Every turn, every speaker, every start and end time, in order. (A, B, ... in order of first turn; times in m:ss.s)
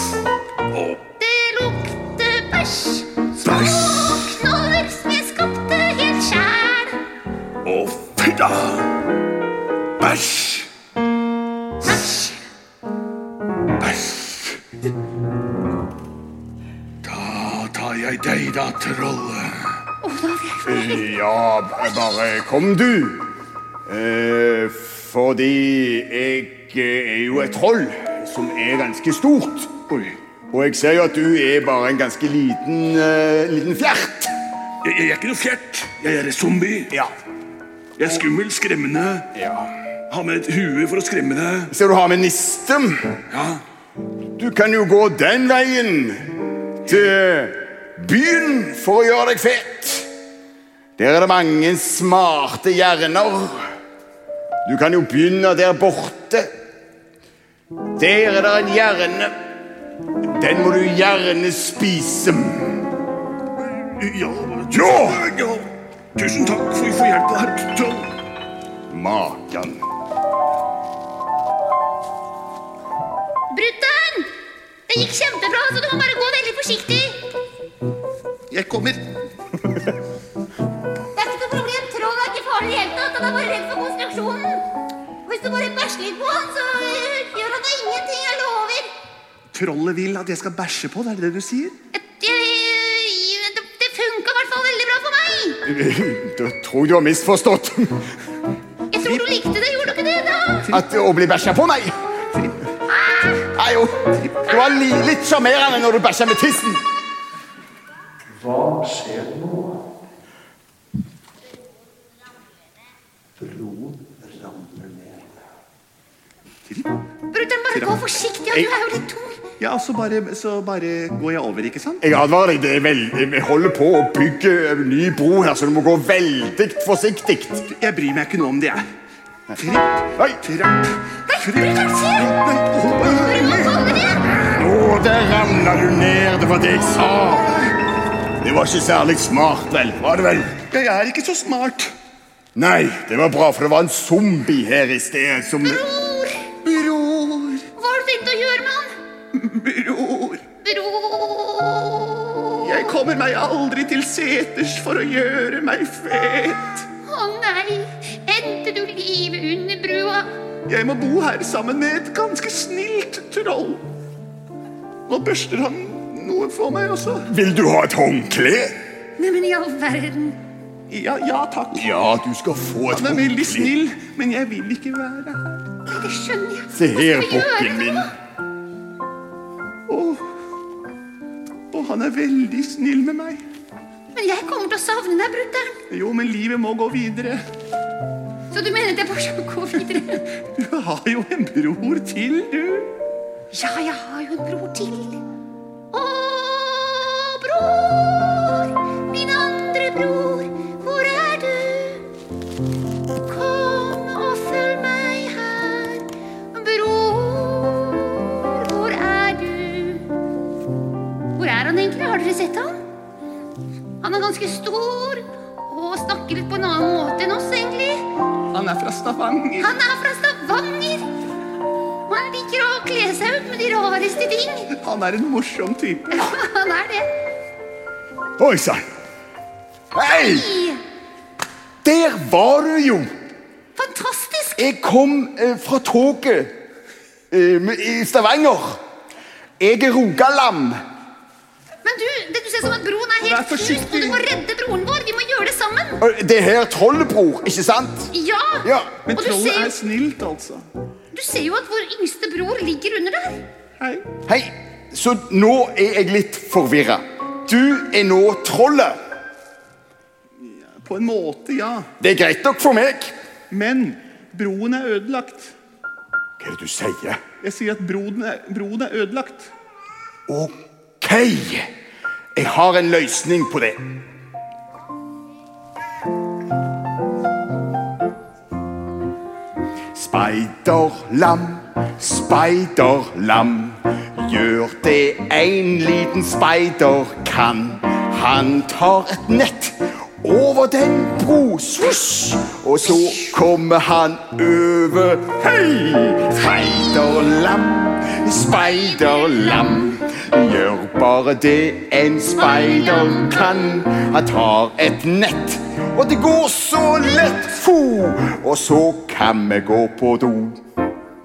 0:01.2-0:07.0 A
0:07.6-0:08.8 B
0:10.0-0:10.6 B
0:11.9-0:12.4 A
0:13.8-0:14.6 C
0:17.0-0:19.5 B
0:20.0-0:21.0 A
0:20.6-0:23.3 D
0:23.9-0:29.7 D
0:29.9-0:30.2 C
0:30.5-0:34.3 D
0:34.8-0:36.7 B
0:38.0-0:38.9 C
0:38.0-0:39.2 B
0:39.3-0:39.7 D
0:40.1-0:41.7 B
0:40.7-0:41.5 C
0:41.7-0:43.1 D
0:44.4-0:46.3 D
0:46.8-0:50.1 D
0:51.0-0:53.6 D
0:54.6-0:56.5 D
0:58.0-0:59.3 D
1:00.4-1:02.8 D
1:03.7-1:08.1 C
1:04.7-1:05.3 D
1:06.2-1:07.7 B
1:08.9-1:09.8 D
1:13.5-1:14.3 A
1:14.9-1:17.3 A
1:18.5-1:19.1 C
1:21.1-1:24.6 A
1:25.2-1:28.9 A
1:29.5-1:31.8 C
1:31.9-1:35.6 A
1:35.6-1:38.0 D
1:38.9-1:40.7 A
1:39.0-1:39.4 C
1:40.7-1:42.0 D
1:42.9-1:43.5 A
1:43.5-1:46.8 D
1:44.5-1:44.8 A
1:48.3-1:49.8 E
1:53.4-1:55.3 E
1:56.7-1:57.0 C
1:57.3-1:59.5 A
1:57.7-1:58.4 C
1:59.6-2:02.0 C
2:02.0-2:07.7 D
2:07.7-2:08.8 C
2:09.6-2:14.1 C
2:11.3-2:12.3 A
2:13.2-2:14.3 A
2:14.4-2:17.6 D
2:18.4-2:20.6 D
2:20.7-2:21.9 C
2:22.5-2:25.8 D
2:25.6-2:26.6 A
2:26.6-2:27.6 C
2:27.8-2:29.0 A
2:29.3-2:30.5 C
2:30.6-2:32.7 A
2:32.6-2:36.9 C
2:37.0-2:40.3 A
2:40.7-2:43.8 C
2:45.1-2:47.3 C
2:47.3-2:48.8 D
2:49.2-2:50.4 A
2:50.9-2:51.9 C
2:51.7-2:53.7 D
2:52.9-2:55.4 C
2:55.9-2:58.1 A
2:56.7-2:58.1 D
2:59.9-3:00.2 C
3:01.7-3:03.4 C
3:04.1-3:05.8 A
3:05.9-3:07.4 C
3:08.5-3:10.2 A
3:09.8-3:12.9 C
3:13.5-3:15.2 A
3:15.9-3:22.1 A
3:23.3-3:30.0 A
3:31.4-3:32.8 A
3:34.0-3:38.0 A
3:38.5-3:39.8 C
3:39.6-3:41.1 A
3:42.1-3:44.7 A
3:44.7-3:46.4 C
3:46.3-3:47.1 A
3:48.4-3:48.8 D
3:49.9-3:50.5 D
3:50.1-3:50.8 A
3:51.8-3:53.1 D
3:53.8-3:54.6 A
3:54.6-3:56.5 D
3:57.3-3:58.8 D
3:59.6-4:00.8 D
4:01.8-4:06.0 A
4:03.2-4:04.3 C
4:06.0-4:08.1 D
4:08.1-4:09.7 A
4:08.6-4:09.0 D
4:09.1-4:10.7 C
4:11.1-4:13.5 A
4:13.8-4:14.1 C
4:14.3-4:19.0 D
4:20.4-4:21.9 C
4:22.0-4:23.1 D
4:23.5-4:25.5 C
4:26.4-4:27.2 D
4:27.4-4:29.5 C
4:30.3-4:31.7 D
4:32.3-4:33.8 D
4:39.9-5:10.6 D
5:02.4-5:03.5 A